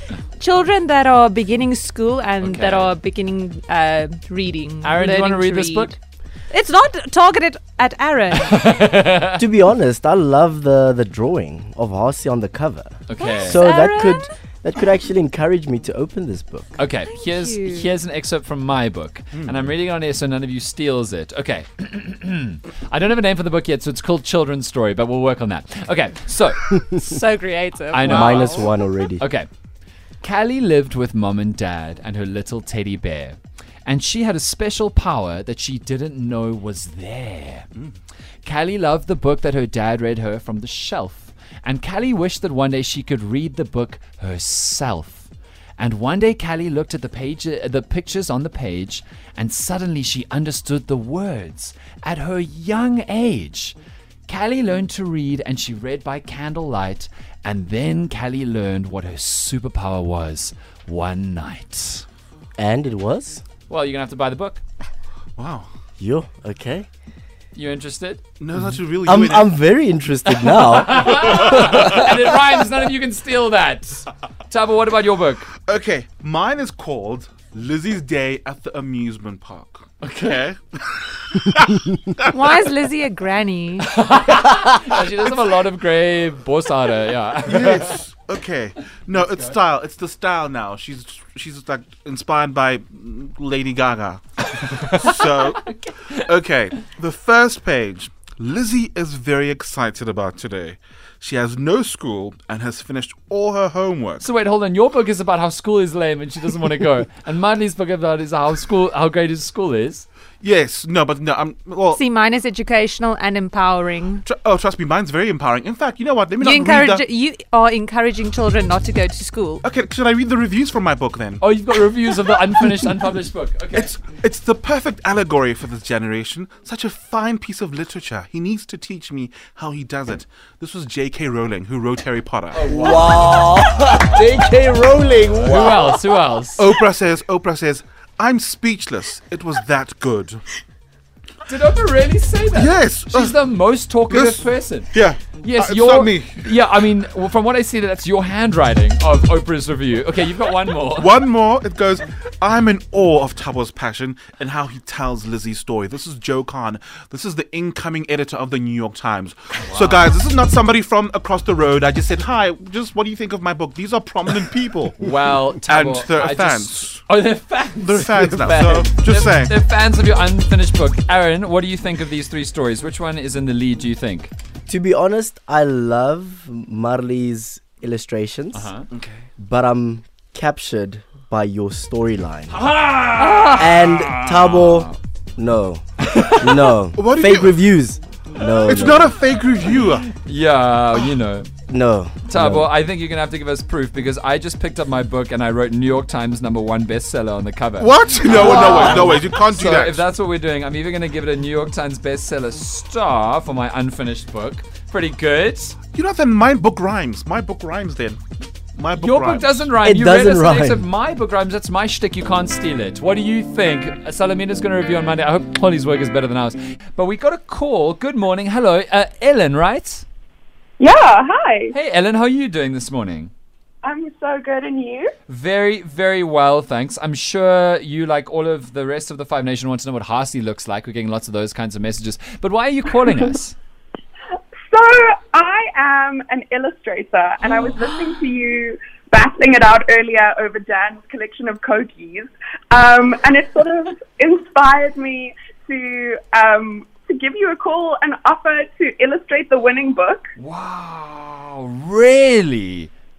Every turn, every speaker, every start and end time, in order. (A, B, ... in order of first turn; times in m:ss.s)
0:00.4-0:06.0 A
0:02.4-0:02.9 B
0:04.8-0:05.9 B
0:06.5-0:08.8 A
0:08.3-0:09.4 B
0:09.3-0:16.8 C
0:13.1-0:13.7 B
0:13.2-0:14.3 A
0:16.8-0:27.1 B
0:17.1-0:17.9 A
0:27.0-0:28.7 A
0:27.9-0:28.7 B
0:28.0-0:29.2 C
0:29.2-0:29.5 B
0:30.2-0:37.7 B
0:38.4-0:53.8 B
0:54.3-1:02.0 B
1:02.6-1:03.4 C
1:03.7-1:04.6 B
1:05.4-1:05.7 D
1:06.0-1:06.9 C
1:07.6-1:08.2 B
1:08.4-1:09.5 D
1:09.0-1:11.9 C
1:10.4-1:15.5 B
1:15.6-1:22.7 D
1:20.0-1:20.5 B
1:22.2-1:23.9 A
1:23.8-1:28.0 B
1:27.4-1:44.3 D
1:44.2-1:50.1 B
1:50.4-1:52.0 D
1:51.9-1:54.2 A
1:54.2-1:57.0 D
1:56.4-1:59.6 A
1:59.6-2:01.4 D
2:01.4-2:03.9 B
2:03.7-2:12.7 D
2:12.5-2:13.5 B
2:12.7-2:16.0 C
2:15.4-2:16.7 B
2:16.6-2:20.4 D
2:21.5-2:31.2 B
2:22.5-2:23.4 D
2:24.1-2:26.4 D
2:30.9-2:45.0 D
2:39.6-2:40.0 B
2:45.0-2:54.3 B
2:45.7-2:47.0 D
2:47.8-2:49.6 D
2:54.7-2:58.7 C
2:58.5-2:58.9 B
2:58.9-2:59.2 D
2:59.4-3:02.6 C
3:02.5-3:05.0 B
3:03.2-3:03.6 A
3:03.5-3:09.1 C
3:06.0-3:06.7 B
3:07.0-3:07.6 D
3:08.7-3:10.1 D
3:10.1-3:11.5 B
3:11.7-3:12.7 C
3:12.2-3:25.8 B
3:17.8-3:20.0 D
3:25.9-3:28.2 D
3:28.8-3:29.7 D
3:29.0-3:40.0 B
3:29.8-3:30.9 C
3:40.8-3:41.7 E
3:41.7-3:43.3 B
3:43.8-3:45.1 E
3:45.3-3:53.6 B
3:54.7-4:10.3 E
4:10.4-4:12.9 B